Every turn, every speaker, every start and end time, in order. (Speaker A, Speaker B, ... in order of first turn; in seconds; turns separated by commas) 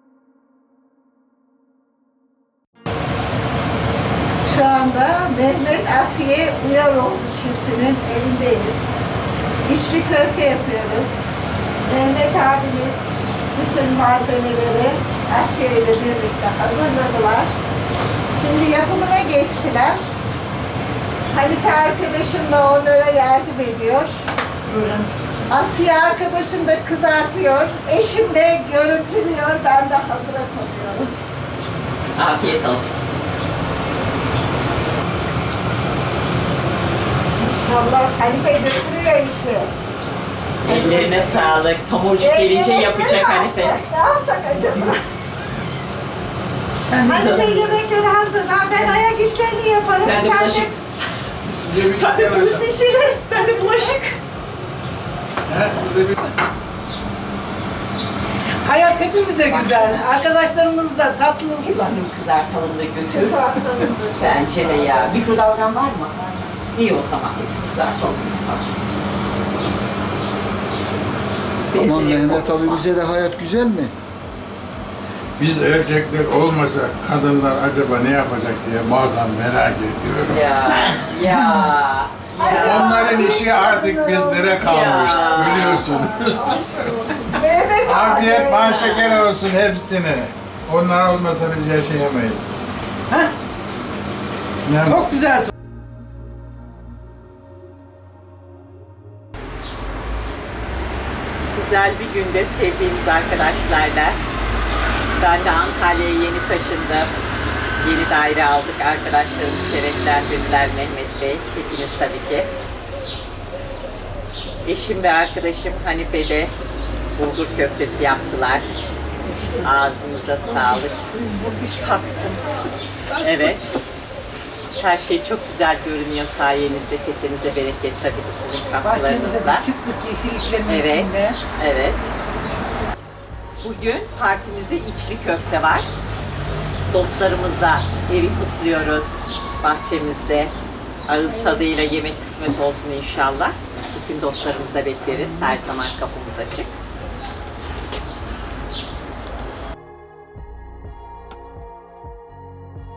Speaker A: 4.5-8.9, Speaker A: 9.7-11.2, Speaker A: 11.9-17.5, Speaker A: 18.4-20.1, Speaker A: 21.3-31.1, Speaker B: 32.1-33.0, Speaker A: 37.4-39.7, Speaker B: 40.6-43.8, Speaker A: 40.6-41.6, Speaker A: 42.2-45.0, Speaker B: 46.8-47.8, Speaker A: 47.0-50.7, Speaker B: 50.0-50.8, Speaker C: 51.5-52.6, Speaker B: 51.9-54.1, Speaker A: 52.3-54.0, Speaker C: 55.5-56.3, Speaker D: 58.6-61.9, Speaker B: 59.4-60.1, Speaker B: 61.6-63.6, Speaker A: 63.1-65.3, Speaker B: 64.2-66.2, Speaker A: 66.1-66.5, Speaker B: 66.7-68.7, Speaker B: 71.7-72.9, Speaker E: 71.7-73.9, Speaker C: 75.4-81.4, Speaker B: 80.3-83.3, Speaker A: 82.4-89.0, Speaker C: 82.4-86.8, Speaker B: 84.6-85.9, Speaker C: 87.8-92.4, Speaker B: 88.7-89.3, Speaker C: 94.7-95.1, Speaker D: 94.9-95.5, Speaker B: 101.5-104.2, Speaker B: 105.2-107.1, Speaker B: 107.8-112.5, Speaker B: 114.6-116.5, Speaker B: 117.2-118.7, Speaker D: 119.3-119.6, Speaker B: 119.6-122.5, Speaker D: 123.1-123.5, Speaker B: 123.2-123.7, Speaker B: 124.8-129.6, Speaker D: 128.8-131.4, Speaker B: 130.7-132.1, Speaker B: 133.6-135.9, Speaker B: 136.9-140.5, Speaker B: 141.1-146.7